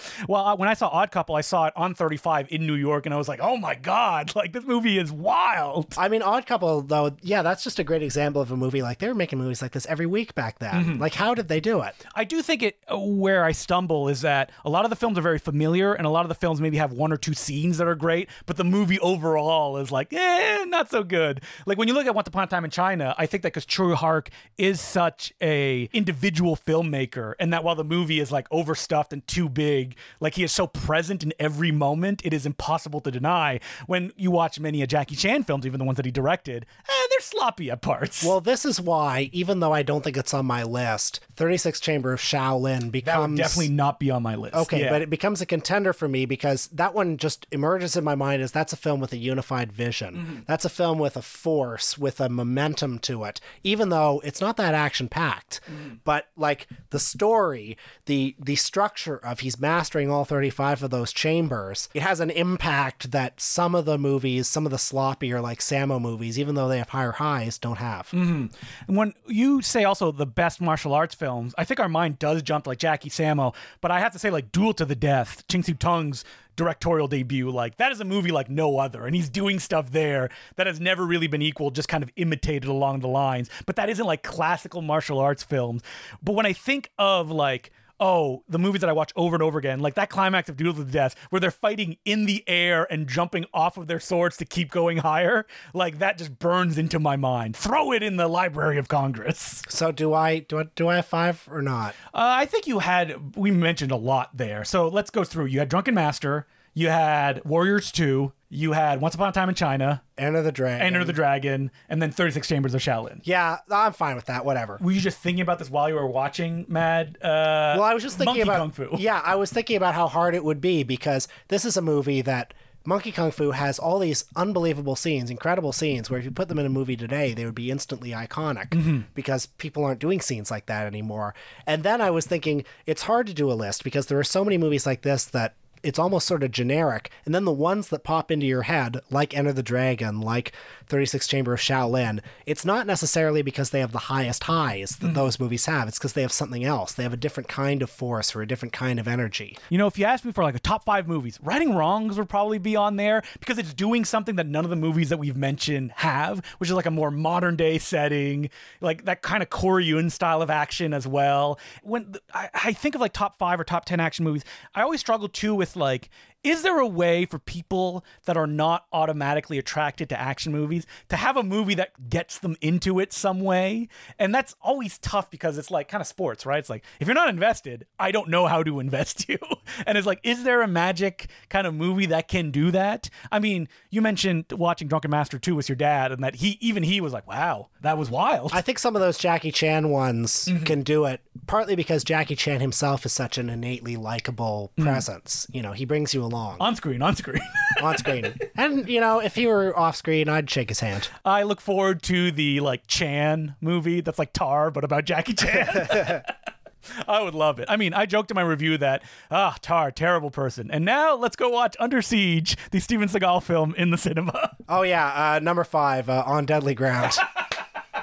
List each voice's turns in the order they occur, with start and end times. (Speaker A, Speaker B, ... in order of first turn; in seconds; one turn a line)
Speaker A: 0.2-6.0
Speaker B: 6.0-12.0
Speaker A: 10.7-11.0
Speaker A: 12.1-38.3
Speaker B: 38.2-43.7
Speaker A: 43.0-45.0
Speaker B: 44.5-68.1
Speaker A: 68.1-99.6
Speaker B: 99.7-101.9
Speaker A: 102.1-110.0
Speaker B: 110.2-111.2
Speaker A: 110.8-113.2
Speaker B: 113.2-114.8
Speaker A: 114.8-119.0
Speaker B: 117.7-149.6
Speaker A: 128.7-129.0
Speaker A: 149.7-188.6
Speaker B: 188.5-196.7
Speaker A: 190.5-190.7
Speaker A: 194.8-195.0
Speaker A: 196.6-198.3
Speaker B: 197.8-201.1
Speaker A: 201.2-206.3
Speaker B: 205.8-206.2
Speaker A: 206.9-214.6
Speaker B: 214.7-217.2
Speaker A: 217.2-217.4